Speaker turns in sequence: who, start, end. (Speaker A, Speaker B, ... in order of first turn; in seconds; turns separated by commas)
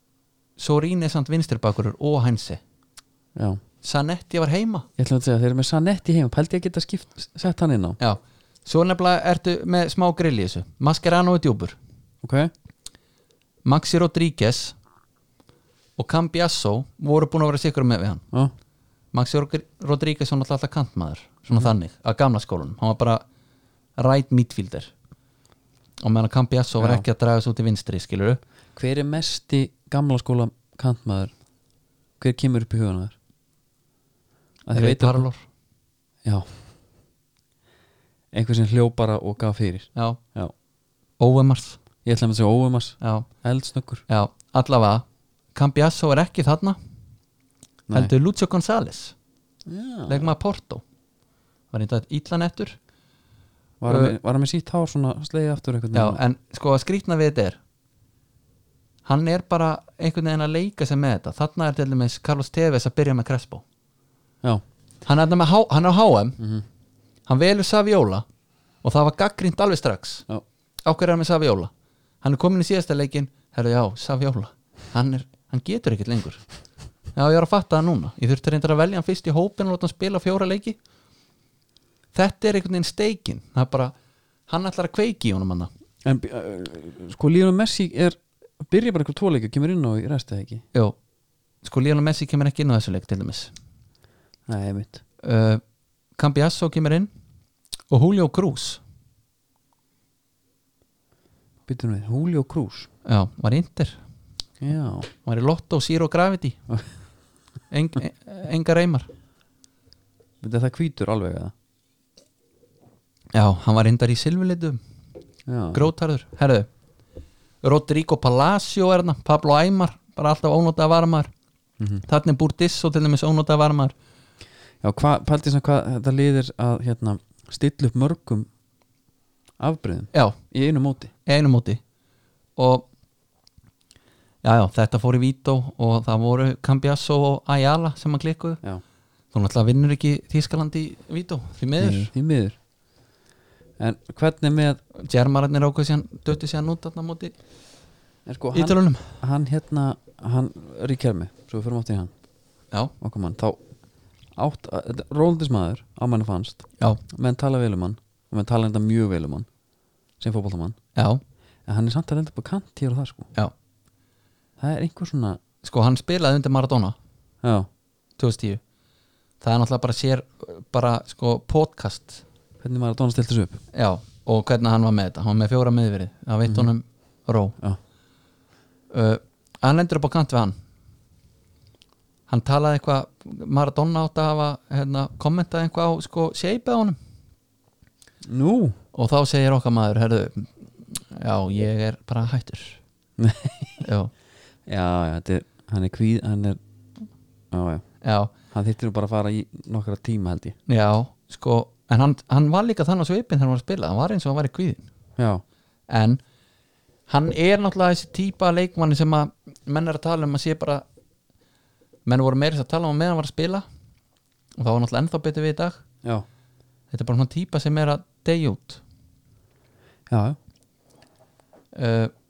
Speaker A: 0.6-2.6, Speaker B: 3.4-3.6, Speaker A: 3.8-4.9, Speaker B: 5.0-8.0, Speaker A: 8.0-11.8, Speaker B: 12.2-12.5, Speaker A: 13.6-14.8, Speaker A: 16.0-18.2, Speaker A: 19.1-23.2, Speaker A: 24.0-24.9, Speaker A: 26.0-28.4, Speaker B: 26.8-27.0, Speaker B: 28.8-31.3, Speaker B: 32.2-33.1, Speaker B: 34.6-35.3, Speaker A: 34.7-35.4, Speaker B: 36.2-36.6, Speaker B: 38.3-40.5, Speaker A: 39.9-40.2, Speaker A: 41.2-41.8, Speaker B: 42.0-44.0, Speaker A: 43.0-43.3, Speaker A: 44.1-46.8, Speaker A: 47.9-49.1, Speaker B: 49.7-50.3, Speaker A: 50.1-50.8, Speaker A: 51.7-52.8, Speaker B: 53.8-56.2, Speaker A: 53.9-54.1, Speaker A: 55.9-57.6, Speaker A: 59.0-63.6, Speaker A: 65.0-66.4, Speaker B: 66.4-66.6, Speaker A: 67.2-68.2, Speaker A: 68.8-70.2, Speaker A: 70.8-71.7, Speaker A: 72.2-76.4, Speaker A: 77.1-80.8, Speaker A: 82.1-83.9, Speaker A: 84.5-85.7, Speaker B: 86.0-90.6, Speaker A: 91.6-93.5, Speaker B: 94.5-95.0, Speaker A: 95.2-95.6, Speaker A: 96.2-97.1, Speaker A: 97.9-98.8, Speaker B: 101.7-102.9, Speaker A: 103.0-104.0, Speaker B: 104.6-105.1, Speaker A: 105.2-106.6, Speaker A: 107.7-109.1, Speaker B: 110.4-111.5, Speaker A: 113.3-114.8, Speaker B: 115.5-115.9, Speaker A: 115.7-116.7, Speaker A: 117.6-121.3, Speaker A: 122.0-123.9, Speaker B: 124.8-128.5, Speaker B: 129.6-131.1, Speaker A: 131.2-131.8, Speaker A: 132.6-132.9, Speaker A: 134.4-138.6, Speaker A: 139.3-142.1, Speaker B: 141.8-142.6, Speaker B: 143.8-144.8, Speaker A: 144.9-147.3, Speaker B: 148.2-152.1, Speaker A: 148.5-149.1, Speaker B: 153.0-153.6, Speaker B: 154.3-159.5, Speaker B: 160.2-160.8, Speaker A: 160.9-161.2, Speaker B: 161.7-163.3, Speaker B: 164.6-165.4, Speaker A: 165.6-166.9, Speaker B: 167.4-167.7, Speaker A: 168.2-168.6, Speaker A: 169.4-172.2, Speaker B: 172.6-173.6, Speaker A: 173.7-177.5, Speaker A: 178.9-180.6, Speaker A: 182.3-187.0, Speaker B: 188.2-188.8, Speaker A: 188.9-192.8, Speaker B: 193.2-193.8, Speaker A: 193.8-194.1, Speaker B: 194.7-196.6, Speaker B: 197.5-197.8, Speaker A: 198.0-198.3, Speaker B: 198.5-200.6, Speaker A: 200.7-204.8, Speaker B: 205.2-205.4, Speaker A: 205.9-206.2, Speaker A: 207.1-210.8, Speaker A: 212.1-213.6, Speaker A: 214.6-215.8, Speaker A: 216.9-218.8, Speaker B: 220.1-220.4, Speaker A: 221.7-222.1